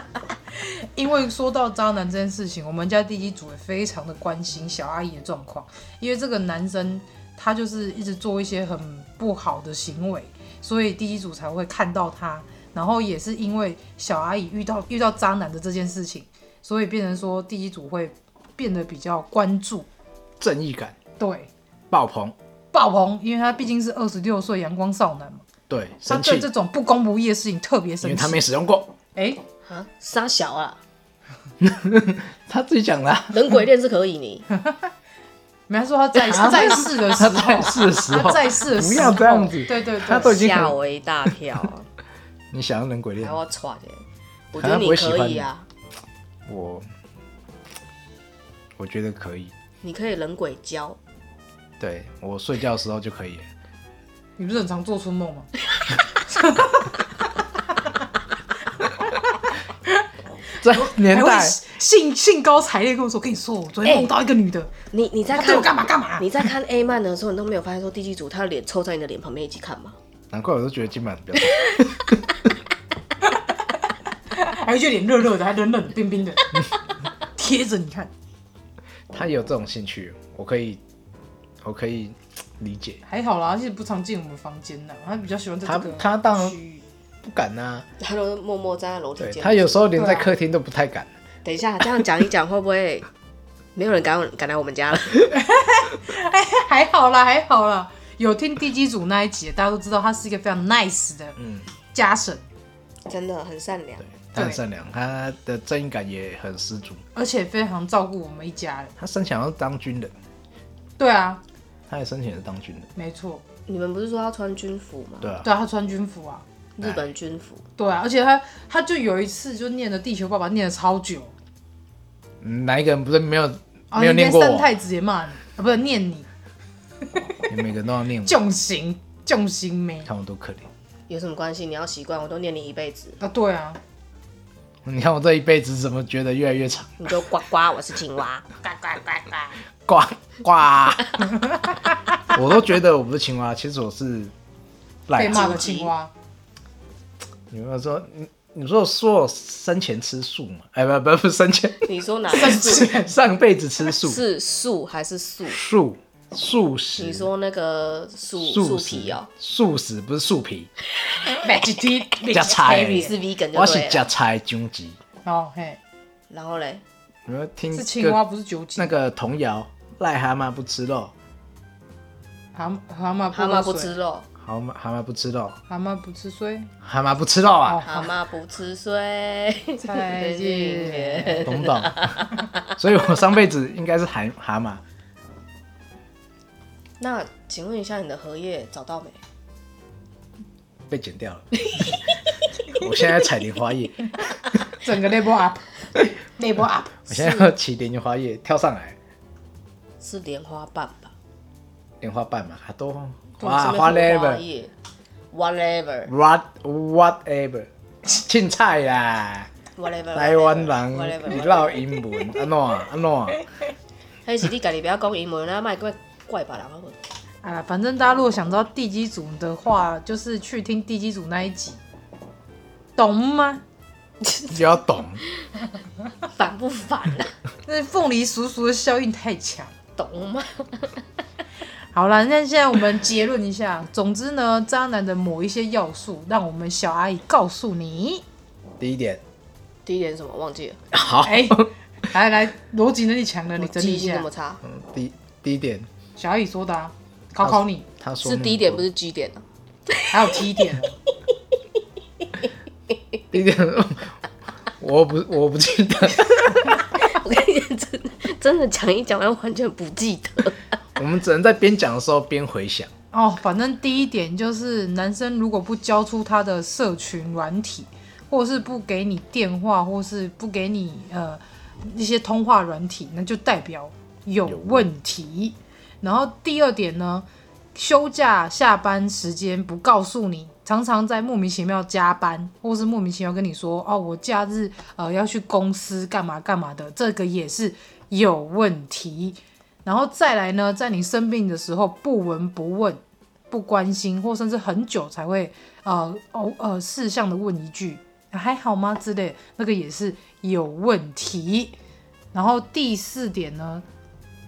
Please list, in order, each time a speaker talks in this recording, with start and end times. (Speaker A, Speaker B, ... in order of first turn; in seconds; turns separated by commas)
Speaker A: 0.6-19.9, Speaker B: 20.4-21.0, Speaker A: 21.2-21.5, Speaker B: 21.9-22.3, Speaker A: 22.7-25.4, Speaker B: 25.7-26.5, Speaker A: 26.1-28.4, Speaker B: 28.0-28.9, Speaker A: 29.1-29.4, Speaker C: 29.6-30.8, Speaker B: 31.6-33.6, Speaker C: 33.3-34.5, Speaker A: 35.7-40.4, Speaker B: 36.3-40.7, Speaker C: 40.1-41.9, Speaker B: 42.5-43.4, Speaker C: 43.2-45.7, Speaker B: 44.6-45.5, Speaker B: 46.5-46.9, Speaker B: 48.8-49.5, Speaker C: 49.8-51.0, Speaker B: 51.8-53.5, Speaker A: 54.4-55.5, Speaker A: 56.3-57.0, Speaker B: 60.6-61.6, Speaker A: 60.6-64.7, Speaker C: 63.8-64.1, Speaker C: 64.9-70.0, Speaker A: 65.3-66.3, Speaker B: 70.3-72.2, Speaker A: 74.3-76.6, Speaker A: 77.2-78.1, Speaker B: 79.1-80.8, Speaker B: 81.6-83.0, Speaker A: 83.0-86.8, Speaker B: 85.6-86.6, Speaker B: 87.2-87.9, Speaker C: 88.0-89.8, Speaker B: 89.2-91.1, Speaker A: 89.9-90.3, Speaker C: 91.4-93.1, Speaker C: 93.7-95.3, Speaker A: 95.3-101.4, Speaker B: 101.4-101.7, Speaker A: 101.9-102.4, Speaker C: 103.1-104.1, Speaker B: 104.1-107.0, Speaker A: 104.3-104.6, Speaker A: 107.2-108.9, Speaker B: 109.0-110.1, Speaker A: 111.0-111.4, Speaker B: 111.9-112.9, Speaker A: 113.0-113.4, Speaker C: 113.7-115.3, Speaker B: 115.2-115.5, Speaker A: 115.4-116.4, Speaker C: 116.8-117.6, Speaker A: 117.8-121.3, Speaker B: 122.4-124.7, Speaker A: 123.9-126.3, Speaker A: 127.1-127.5, Speaker B: 127.5-128.4, Speaker A: 128.2-130.1, Speaker B: 130.0-130.7, Speaker C: 131.1-133.2, Speaker A: 133.2-133.8, Speaker B: 134.8-137.0, Speaker C: 137.0-138.4, Speaker A: 138.6-139.6, Speaker B: 139.8-141.2, Speaker B: 142.3-144.3, Speaker B: 145.1-145.7, Speaker A: 145.2-146.1, Speaker C: 145.3-145.9, Speaker B: 147.5-151.9, Speaker C: 151.8-153.0, Speaker A: 152.3-153.1, Speaker B: 152.6-154.2, Speaker C: 154.0-155.6, Speaker B: 155.5-157.3, Speaker C: 157.0-159.3, Speaker B: 158.4-160.7, Speaker C: 161.1-161.5, Speaker A: 161.3-163.1, Speaker B: 162.2-165.0, Speaker C: 162.3-164.0, Speaker A: 165.2-165.8, Speaker C: 166.3-166.8, Speaker B: 167.2-168.2, Speaker A: 167.7-169.0, Speaker B: 168.8-171.1, Speaker A: 172.5-173.9, Speaker C: 173.3-174.3, Speaker B: 174.4-175.6, Speaker A: 175.7-176.7, Speaker B: 176.8-177.8, Speaker A: 177.7-178.1, Speaker C: 177.8-182.7, Speaker A: 179.8-181.5, Speaker B: 181.4-184.8, Speaker C: 187.0-189.2, Speaker B: 190.9-191.9, Speaker C: 191.6-192.0, Speaker B: 192.7-194.1, Speaker A: 194.7-197.3, Speaker B: 197.1-199.0, Speaker C: 200.0-201.1, Speaker B: 202.0-204.4, Speaker C: 203.4-204.7, Speaker C: 205.3-206.1, Speaker B: 206.1-209.5, Speaker C: 209.8-211.8, Speaker B: 210.1-213.4, Speaker C: 214.2-217.0, Speaker A: 217.4-221.8, Speaker A: 222.9-223.6, Speaker C: 224.2-224.6, Speaker B: 224.5-225.2, Speaker C: 226.2-227.3, Speaker A: 227.7-229.7, Speaker C: 229.9-231.0, Speaker A: 231.9-238.2, Speaker B: 238.8-239.2, Speaker C: 239.8-240.8, Speaker B: 240.9-241.7, Speaker A: 241.2-244.3, Speaker C: 243.6-244.6, Speaker B: 244.6-245.9, Speaker A: 246.2-247.9, Speaker B: 247.4-248.8, Speaker C: 248.2-250.4, Speaker A: 250.1-251.0, Speaker B: 253.3-256.6, Speaker C: 256.8-260.6, Speaker B: 260.9-262.9, Speaker A: 263.1-301.8, Speaker B: 274.4-274.9, Speaker A: 302.3-303.8